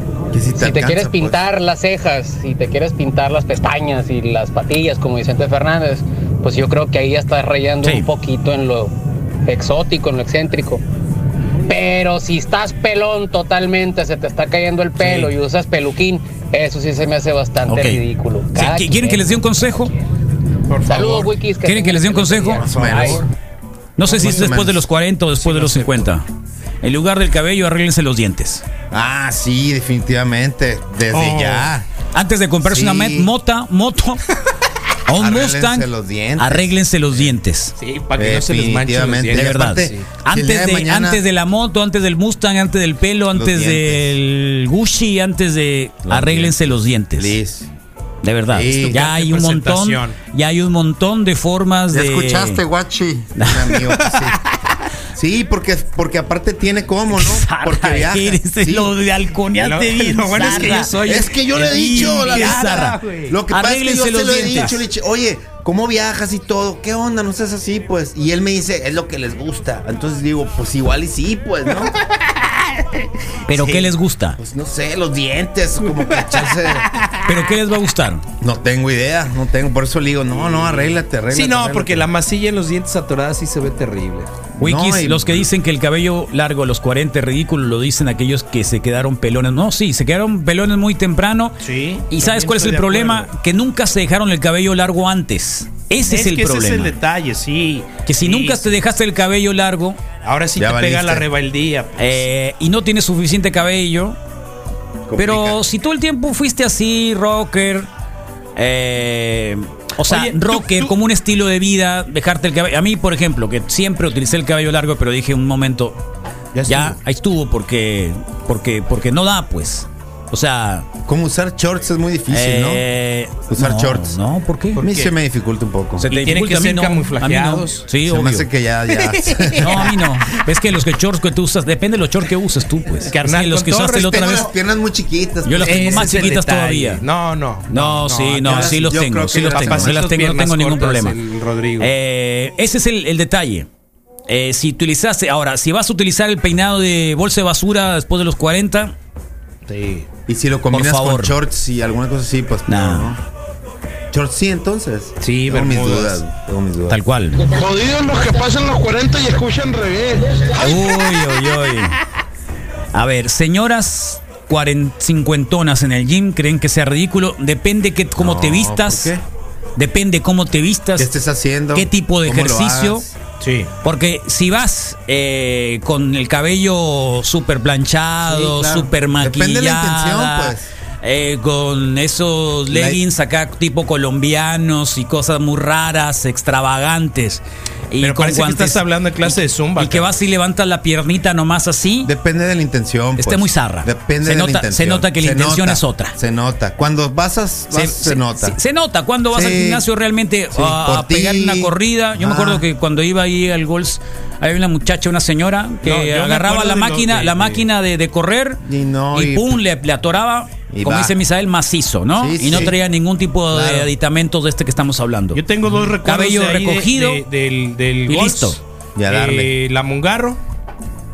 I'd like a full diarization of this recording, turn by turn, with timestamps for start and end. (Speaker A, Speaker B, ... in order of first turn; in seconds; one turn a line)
Speaker A: 0.3-1.4
Speaker B: 0.5-8.9
Speaker C: 7.8-8.1
Speaker B: 9.4-10.8
Speaker B: 11.7-19.7
Speaker C: 15.0-15.3
Speaker C: 17.7-18.0
Speaker C: 18.5-19.9
Speaker D: 20.7-21.2
Speaker B: 20.8-23.2
Speaker C: 21.6-23.2
Speaker A: 22.6-23.3
Speaker C: 24.0-26.2
Speaker A: 24.0-24.8
Speaker D: 25.4-26.1
Speaker C: 26.8-28.6
Speaker A: 28.9-31.9
Speaker D: 31.1-31.7
Speaker C: 32.1-34.2
Speaker A: 32.6-33.3
Speaker C: 35.1-37.7
Speaker A: 35.1-37.3
Speaker D: 37.8-40.1
Speaker A: 38.2-41.2
Speaker C: 39.3-47.4
Speaker A: 43.3-44.1
Speaker A: 46.0-47.7
Speaker C: 48.2-52.6
Speaker A: 48.5-49.0
Speaker D: 48.9-50.2
Speaker A: 51.9-54.4
Speaker C: 53.4-53.8
Speaker A: 55.1-58.9
Speaker C: 57.1-60.9
Speaker D: 59.5-63.4
Speaker A: 60.4-71.9
Speaker C: 61.5-64.8
Speaker C: 73.5-74.4
Speaker A: 73.5-76.9
Speaker C: 77.2-78.2
Speaker A: 78.4-82.1
Speaker D: 80.3-84.3
Speaker A: 84.6-85.5
Speaker C: 84.6-91.6
Speaker D: 91.6-93.3
Speaker C: 92.1-96.9
Speaker D: 96.1-98.8
Speaker C: 98.0-100.0
Speaker D: 100.2-102.2
Speaker A: 100.6-101.2
Speaker C: 102.0-104.2
Speaker A: 105.1-105.6
Speaker C: 105.2-107.9
Speaker C: 108.5-116.0
Speaker D: 110.1-110.9
Speaker D: 116.5-117.0
Speaker C: 116.7-120.9
Speaker A: 121.0-122.8
Speaker C: 122.3-124.8
Speaker A: 123.5-124.2
Speaker D: 124.8-125.1
Speaker A: 124.8-126.1
Speaker C: 126.0-128.5
Speaker D: 126.1-127.8
Speaker A: 128.0-129.9
Speaker D: 128.9-129.9
Speaker C: 129.6-134.5
Speaker D: 133.0-134.5
Speaker A: 133.9-136.4
Speaker C: 135.4-137.0
Speaker D: 135.6-138.8
Speaker C: 137.7-141.2
Speaker A: 138.4-140.0
Speaker D: 139.5-141.9
Speaker C: 141.8-143.7
Speaker C: 144.3-148.9
Speaker D: 149.7-150.1
Speaker A: 150.3-153.2
Speaker C: 150.7-151.4
Speaker C: 152.7-153.1
Speaker A: 154.1-157.0
Speaker D: 155.2-156.2
Speaker C: 156.9-157.4
Speaker E: 157.4-160.6
Speaker C: 160.6-162.0
Speaker C: 162.9-169.1
Speaker A: 168.2-169.2
Speaker C: 169.8-171.1
Speaker A: 171.0-173.1
Speaker C: 171.7-173.0
Speaker D: 173.4-173.7
Speaker C: 173.8-192.1
Speaker A: 178.2-180.7
Speaker A: 182.7-183.0
Speaker D: 188.0-190.2
Speaker A: 192.0-198.6
Speaker C: 193.2-196.2
Speaker C: 197.7-208.6
Speaker A: 199.3-199.8
Speaker A: 200.5-202.6
Speaker D: 205.8-207.6
Speaker A: 208.6-209.6
Speaker C: 209.1-215.4
Speaker A: 210.7-211.2
Speaker A: 212.1-212.8
Speaker A: 213.5-213.9
Speaker D: 215.3-220.4
Speaker C: 216.0-217.2
Speaker C: 218.1-218.6
Speaker A: 218.9-219.5